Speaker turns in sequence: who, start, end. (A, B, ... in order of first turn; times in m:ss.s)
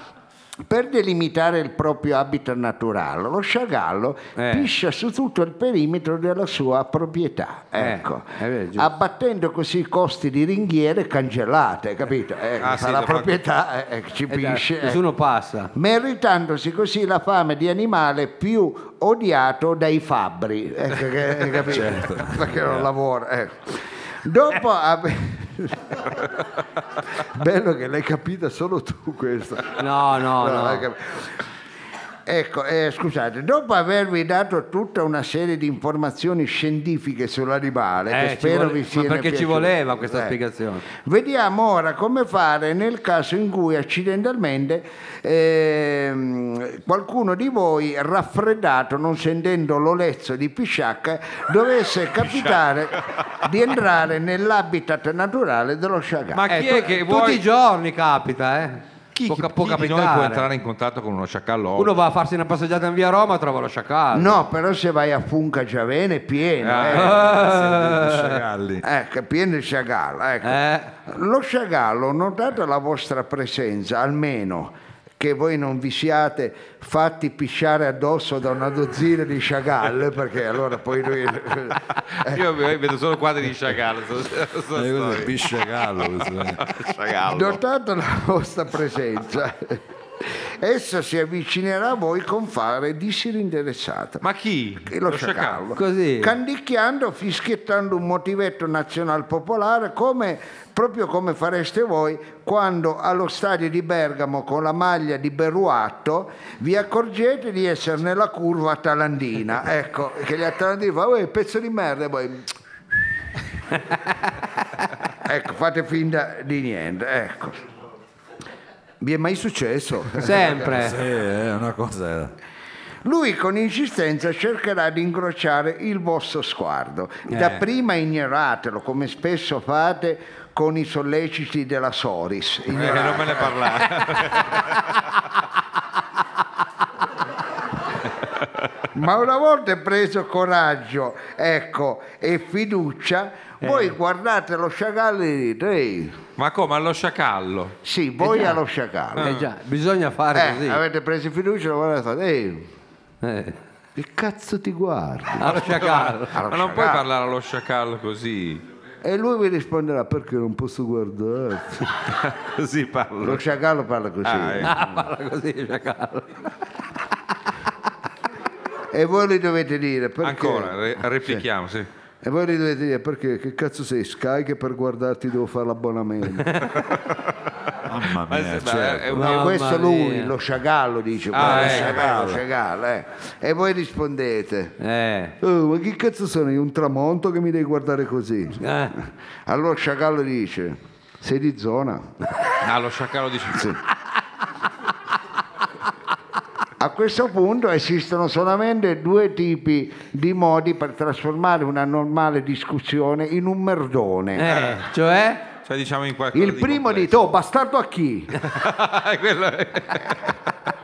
0:00.7-0:15.0 A
0:04.4-0:04.7 B
0:07.8-0:08.9 B
0:12.6-0:13.4 C
0:14.3-0:15.7 B
0:15.8-0:26.4 A
0:21.5-0:22.9 D
0:27.2-0:31.3 A
0:29.8-0:30.8 B
0:32.3-0:40.3 A
0:38.1-0:40.8 B
0:41.0-0:56.4 A
0:52.2-0:52.6 C
0:56.3-0:57.4 C
0:56.5-1:00.5 B
0:59.2-1:02.0 C
1:01.8-1:04.4 B
1:04.1-1:07.2 A
1:06.6-1:07.2 C
1:06.9-1:08.4 B
1:07.2-1:08.8 D
1:08.8-1:22.4 A
1:10.4-1:10.9 B
1:22.1-1:25.4 C
1:24.7-1:26.6 D
1:26.6-1:27.6 C
1:27.3-1:34.2 A
1:34.2-1:35.6 C
1:34.8-1:52.5 A
1:35.8-1:36.3 B
1:55.2-1:57.6 A
1:59.0-2:00.6 A
2:00.2-2:01.0 B
2:00.6-2:02.3 D
2:03.0-2:13.9 A
2:07.3-2:07.6 B
2:12.7-2:14.8 C
2:18.9-2:26.2 A
2:23.6-2:23.9 B
2:26.4-2:27.8 C
2:27.8-2:29.4 A
2:28.2-2:28.6 B
2:29.2-2:29.4 C
2:29.2-2:30.8 B
2:30.3-2:32.7 A
2:33.2-2:33.6 B
2:34.0-2:35.8 A
2:35.4-2:36.4 B
2:35.5-2:38.6 C
2:36.3-2:37.0 A
2:39.0-2:42.0 A
2:42.1-2:43.4 C
2:43.2-2:44.7 A
2:44.2-2:44.7 C
2:44.6-2:46.3 B
2:48.9-2:50.8 A
2:50.2-2:51.9 C
2:52.2-2:56.8 A
2:57.8-2:59.1 D
2:58.2-2:59.5 C
2:59.1-3:00.3 B
2:59.2-3:04.7 A
3:01.3-3:02.0 C
3:01.4-3:02.4 D
3:01.4-3:01.8 B
3:04.8-3:05.4 B
3:05.4-3:08.6 A
3:08.6-3:09.0 B
3:09.5-3:12.1 A
3:12.6-3:13.7 C
3:16.8-3:24.5 A
3:24.4-3:25.4 B
3:25.7-3:27.2 C
3:26.3-3:28.4 A
3:28.4-3:30.3 C